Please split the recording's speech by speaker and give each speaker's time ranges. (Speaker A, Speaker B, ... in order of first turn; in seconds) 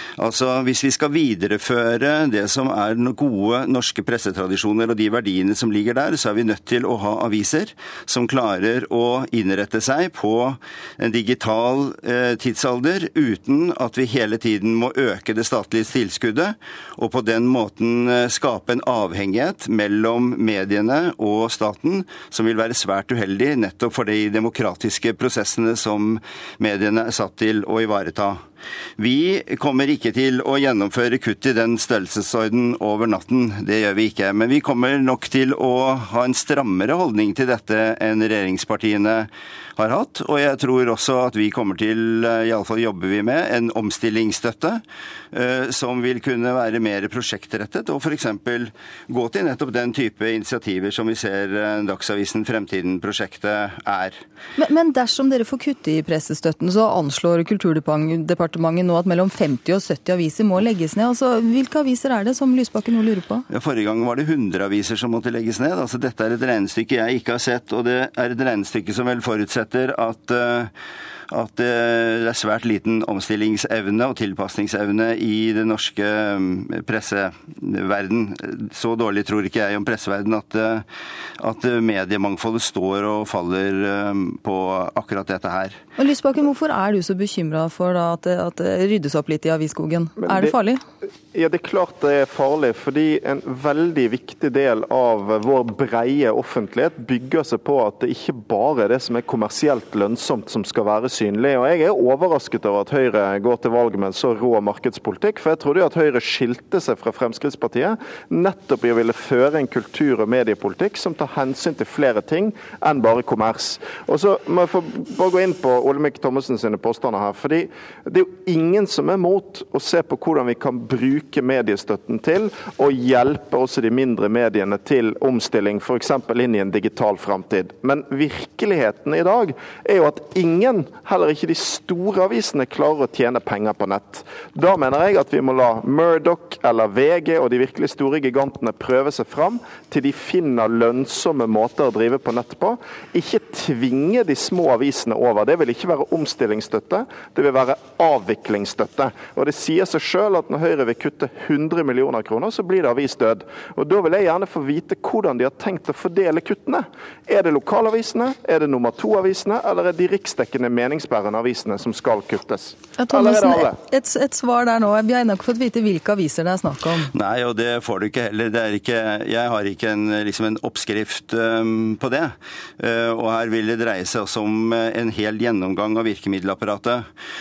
Speaker A: 0.2-28.4, 29.0-54.2, 63.5-70.7, 71.3-80.8, 81.4-85.8, 167.1-177.1
Speaker B: 54.6-63.5, 86.0-90.8, 163.0-167.1
Speaker C: 91.3-163.7